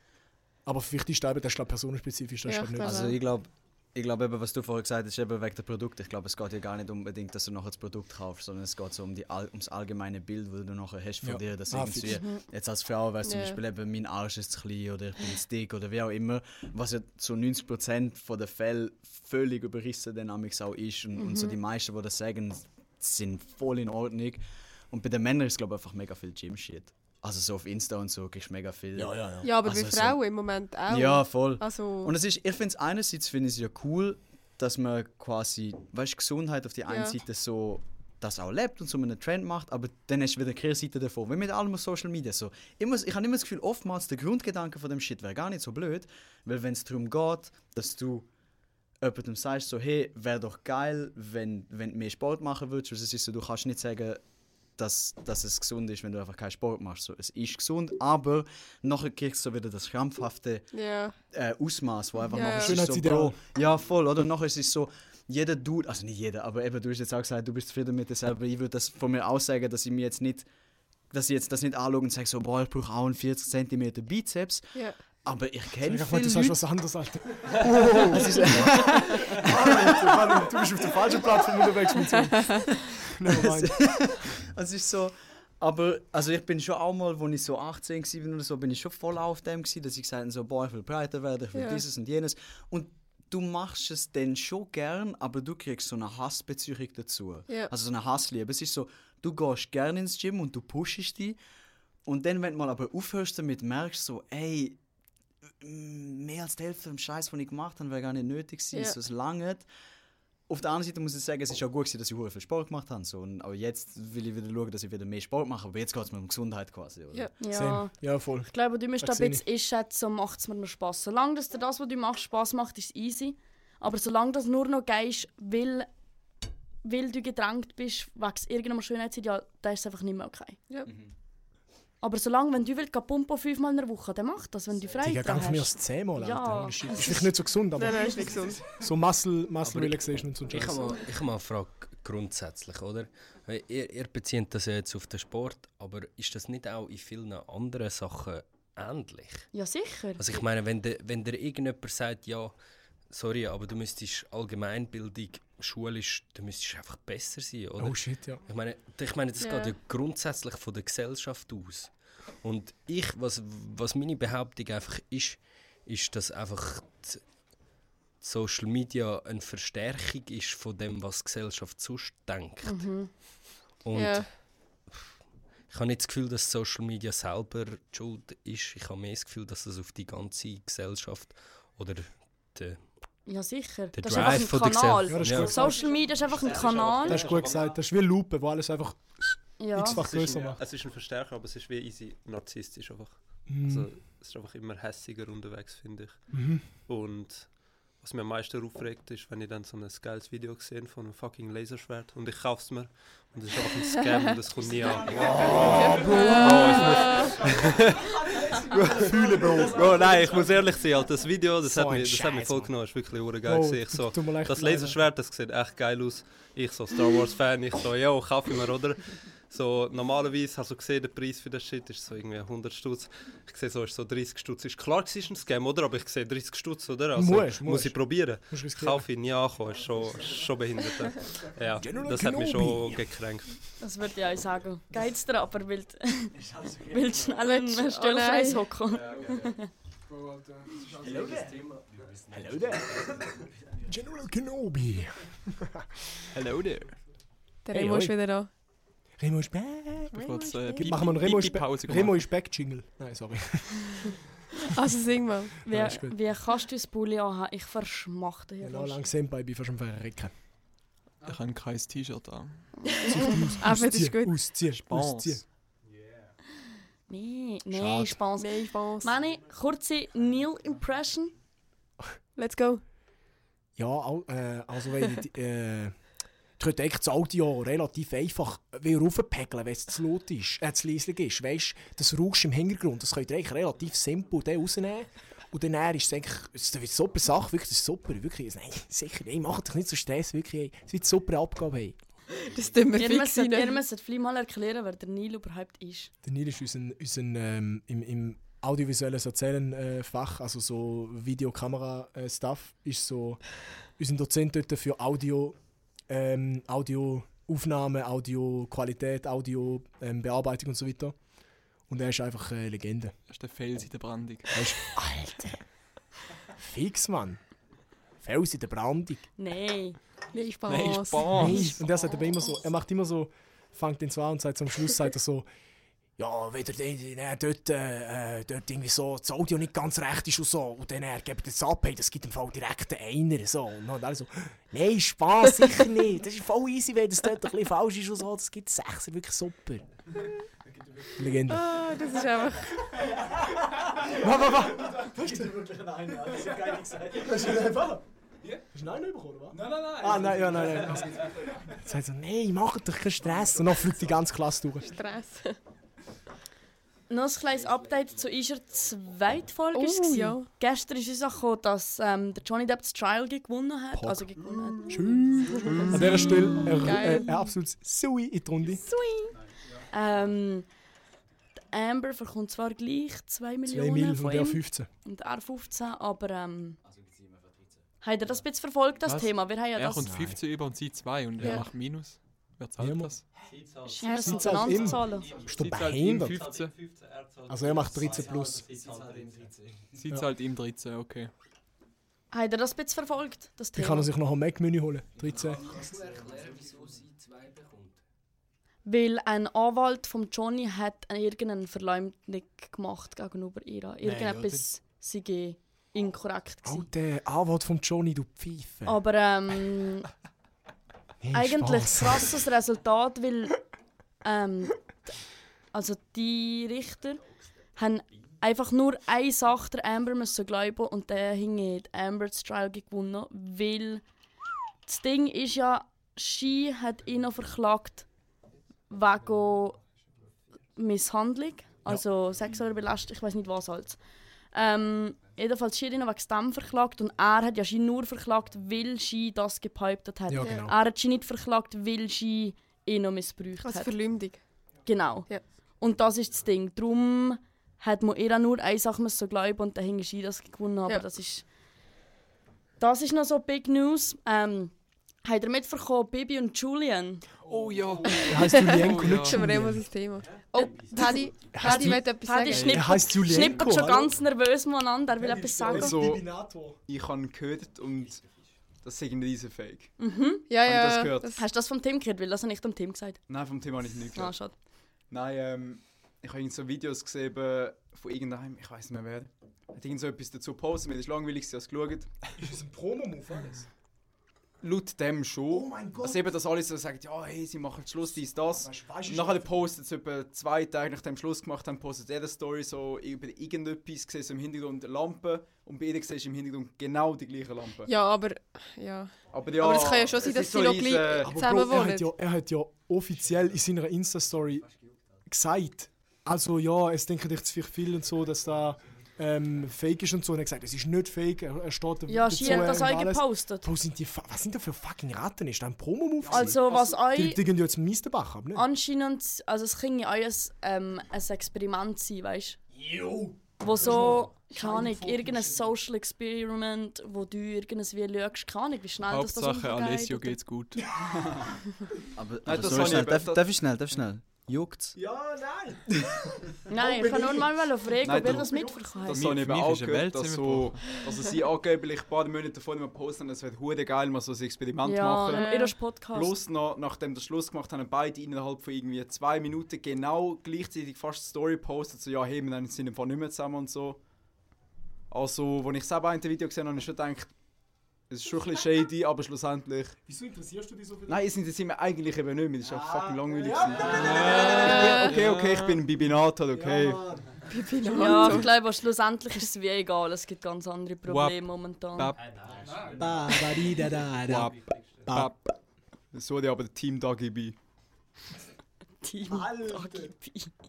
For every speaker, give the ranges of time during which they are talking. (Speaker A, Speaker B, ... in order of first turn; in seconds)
Speaker A: 0.7-3.0, 11.2-12.2, 29.0-29.5, 62.5-63.4, 75.8-84.1, 117.5-119.4, 135.0-141.0, 157.8-158.4, 185.1-185.9, 187.0-190.6, 193.5-193.9, 196.3-196.7, 205.1-207.3, 208.4-210.4, 211.6-212.7, 213.4-215.0, 227.2-229.1, 231.8-233.2, 241.1-241.5, 242.3-243.3, 243.8-246.2, 247.7-248.2, 249.2-254.1, 255.7-256.2, 258.6-260.3, 263.1-265.4, 267.8-268.1, 273.8-276.0, 276.6-292.0, 296.2-305.6, 306.1-311.2, 311.9-313.2, 314.5-315.7, 316.6-317.4, 318.2-319.3, 321.3-325.5, 326.2-339.9, 341.1-341.9, 343.1-348.0, 348.7-354.9, 363.9-368.8, 373.7-374.9, 380.0-380.4, 382.8-383.1, 384.1-386.6, 387.5-388.7, 393.8-395.6, 404.0-404.7, 406.6-409.0, 411.2-412.4, 440.3-440.7, 458.2-459.9, 461.5-464.1, 465.2-466.8, 482.4-483.7, 485.5-486.3, 488.5-489.7, 501.2-504.7, 505.3-518.7, 522.7-525.7, 530.8-531.5, 535.0-539.1, 560.1-561.2, 562.6-565.2, 566.5-568.4, 572.9-575.5, 579.3-580.1
Speaker B: 2.5-3.2, 13.2-13.6, 29.4-32.1, 36.9-37.2, 60.7-61.2, 62.3-62.8, 91.5-91.8, 137.8-138.6, 159.4-159.8, 173.9-174.3, 205.6-207.4, 237.4-238.7, 247.7-248.5, 250.1-251.5, 254.7-255.7, 262.9-264.5, 268.4-269.1, 272.4-272.8, 292.4-293.8, 320.3-322.3, 341.5-342.9, 354.8-355.6, 359.7-360.5, 366.8-367.4, 384.0-384.4, 443.6-444.4, 458.4-463.1, 470.5-471.4, 497.9-502.1, 545.3-545.7, 564.7-564.9, 567.5-568.5
Speaker C: 2.8-30.2, 30.9-48.3, 49.0-54.2, 54.8-60.7, 61.3-70.5, 71.1-76.6, 77.9-80.1, 83.3-101.4, 102.0-104.8, 105.6-109.7, 110.5-117.3, 130.9-131.1, 532.1-535.0
Speaker D: 12.1-12.4, 21.2-21.5, 117.4-125.9, 126.8-130.6, 132.0-137.3, 149.5-150.4, 172.6-173.1, 183.3-187.4, 189.6-190.0, 233.8-239.7, 255.7-259.0, 262.8-263.3, 267.1-271.4, 292.9-296.1, 319.4-320.0, 357.1-366.0, 368.8-370.7, 371.7-376.8, 378.0-380.1, 383.9-385.3, 392.3-394.1, 398.9-406.9, 408.9-410.1, 411.3-413.6, 414.2-415.0, 415.7-417.2, 417.8-424.0, 424.9-428.1, 428.9-429.8, 430.8-434.0, 434.5-443.9, 444.9-451.4, 452.8-454.7, 455.2-457.2, 460.6-466.1, 470.0-470.5, 471.4-473.2, 474.1-474.5, 512.1-513.7, 516.3-517.4, 518.5-522.6, 523.6-530.4, 536.7-539.2, 544.8-546.4, 567.9-572.2, 579.0-580.5
Speaker E: 139.6-149.5, 150.2-152.6, 153.1-167.2, 168.2-172.9, 173.8-175.1, 175.7-182.8, 183.9-185.8, 240.9-242.9, 389.1-389.5, 395.2-398.0
Speaker F: 186.7-187.3, 189.9-208.2, 209.0-233.6, 383.4-389.7, 572.5-573.0
Speaker G: 208.8-209.1, 349.6-351.5, 458.8-459.2, 465.7-466.3, 466.9-468.2, 468.8-469.9, 470.6-471.3, 473.3-474.4, 475.1-482.1, 484.6-497.9, 499.3-501.3, 531.1-531.5, 532.4-533.4, 538.0-545.4, 546.1-554.0, 555.1-557.3, 558.1-560.0, 561.1-567.0, 576.1-577.6
Speaker H: 246.3-247.0, 250.1-252.2, 261.2-262.9, 264.8-265.4, 313.3-314.7, 320.7-321.8, 379.1-383.3, 385.5-386.7, 389.9-391.3, 457.5-459.7, 529.1-530.9, 539.1-540.9, 563.9-565.8, 571.1-571.4, 572.0-572.4, 574.2-575.4